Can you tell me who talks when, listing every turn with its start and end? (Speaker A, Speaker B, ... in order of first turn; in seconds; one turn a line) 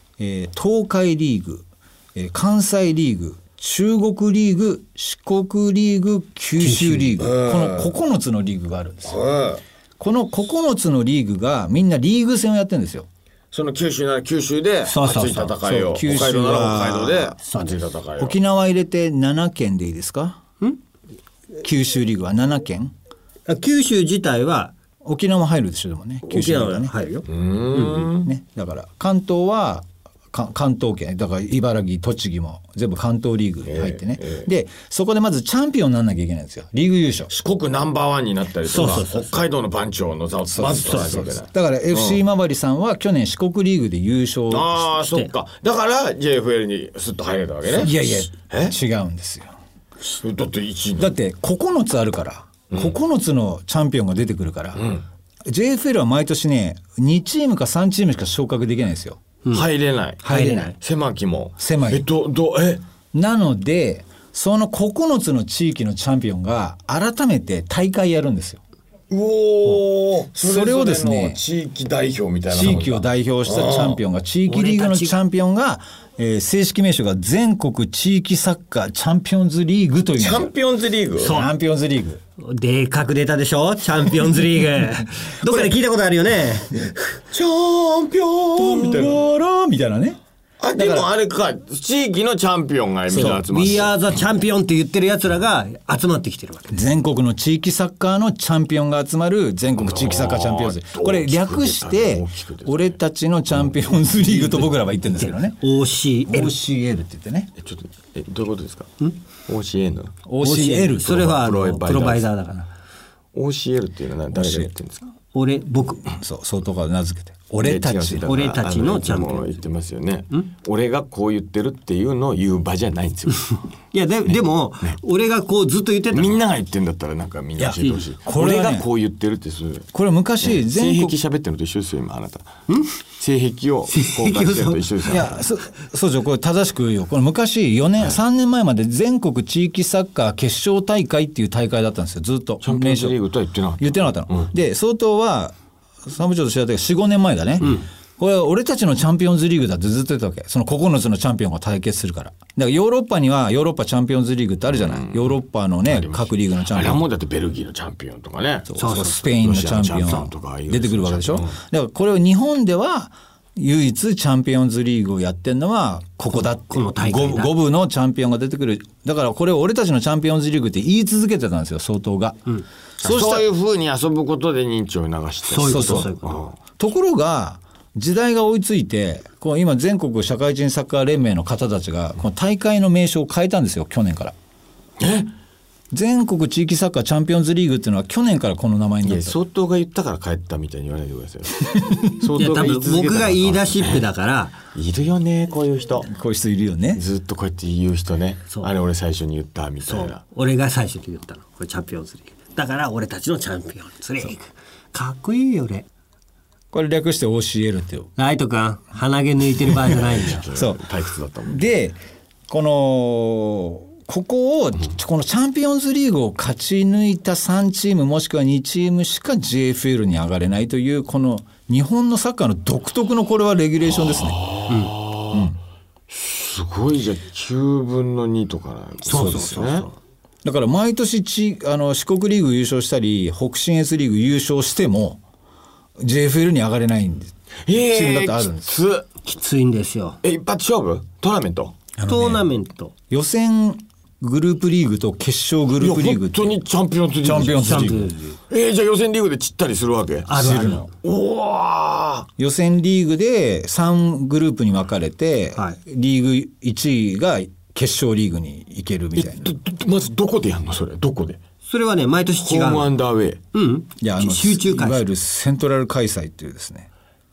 Speaker A: 0.2-9.2
Speaker B: 6.6-7.2
Speaker C: 7.2-7.9
Speaker C: 9.1-9.6
Speaker A: 10.0-13.1
Speaker C: 13.5-18.4
Speaker B: 14.9-15.5
Speaker A: 15.6-17.3
Speaker B: 17.4-17.8
Speaker A: 18.2-20.4
Speaker A: 21.6-22.9
Speaker B: 23.5-24.7
Speaker A: 25.0-26.9
Speaker B: 26.2-28.1
Speaker C: 27.3-28.3
Speaker A: 28.2-37.3
Speaker C: 33.6-34.5
Speaker C: 37.3-42.2
Speaker B: 38.6-39.4
Speaker A: 40.5-44.9
Speaker B: 40.8-41.2
Speaker C: 44.5-47.9
Speaker A: 47.7-49.5
Speaker C: 48.5-48.7
Speaker C: 50.2-51.1
Speaker A: 51.0-54.8
Speaker C: 54.8-55.0
Speaker A: 55.5-59.2
Speaker C: 59.5-62.8
Speaker A: 60.2-60.7
Speaker B: 60.3-60.7
Speaker A: 61.6-62.0
Speaker A: 63.1-68.6
Speaker C: 69.1-74.0
Speaker A: 70.4-71.4
Speaker A: 72.5-80.5
Speaker B: 74.5-75.2
Speaker C: 80.2-81.4
Speaker B: 81.2-81.5
Speaker A: 81.2-82.2
Speaker B: 82.4-87.1
Speaker C: 87.3-89.2
Speaker A: 88.6-90.2
Speaker C: 90.6-94.0
Speaker A: 90.7-91.1
Speaker A: 93.1-93.4
Speaker B: 93.2-96.8
Speaker A: 96.7-105.6
Speaker C: 99.8-103.0
Speaker B: 104.3-106.5
Speaker A: 106.2-107.5
Speaker C: 107.6-108.9
Speaker C: 109.5-110.2
Speaker A: 110.2-111.2
Speaker B: 110.4-112.7
Speaker C: 111.0-112.3
Speaker C: 113.3-115.1
Speaker A: 114.3-114.7
Speaker B: 115.3-116.1
Speaker A: 116.1-118.3
Speaker C: 117.6-123.6
Speaker B: 118.2-119.6
Speaker B: 123.9-126.3
Speaker C: 124.3-125.0
Speaker C: 126.1-132.6
Speaker A: 127.6-128.9
Speaker A: 129.9-131.2
Speaker C: 133.2-135.4
Speaker B: 133.9-135.2
Speaker A: 135.1-143.2
Speaker C: 142.6-144.5
Speaker A: 143.8-157.0
Speaker C: 154.7-161.6
Speaker A: 158.7-172.5
Speaker B: 158.8-159.2
Speaker B: 166.3-167.5
Speaker A: 173.0-173.4
Speaker C: 173.0-176.5
Speaker B: 175.5-176.3
Speaker A: 175.6-184.3
Speaker C: 185.0-185.3
Speaker A: 185.9-189.3
Speaker C: 189.0-194.0
Speaker A: 191.7-192.1
Speaker B: 192.3-194.6
Speaker C: 194.7-196.1
Speaker A: 196.1-197.0
Speaker C: 196.9-200.2
Speaker B: 199.8-205.8
Speaker A: 206.7-208.1
Speaker B: 208.2-210.4
Speaker C: 209.9-211.7
Speaker A: 210.5-210.8
Speaker A: 211.5-224.4
Speaker C: 223.9-225.5
Speaker A: 225.3-225.6
Speaker C: 226.1-229.9
Speaker B: 229.1-229.9
Speaker A: 229.1-229.4
Speaker A: 230.4-235.2
Speaker A: 236.0-238.7
Speaker C: 237.7-239.1
Speaker B: 239.2-240.2
Speaker C: 240.2-241.8
Speaker A: 242.0-242.4
Speaker B: 242.0-242.9
Speaker A: 243.1-246.6
Speaker C: 245.8-252.3
Speaker A: 247.2-248.1
Speaker B: 247.6-248.4
Speaker B: 250.3-250.9
Speaker A: 250.3-250.8
Speaker A: 252.4-259.5
Speaker C: 259.2-261.4
Speaker B: 261.6-262.9
Speaker C: 262.4-263.4
Speaker B: 263.5-265.1
Speaker A: 264.0-266.9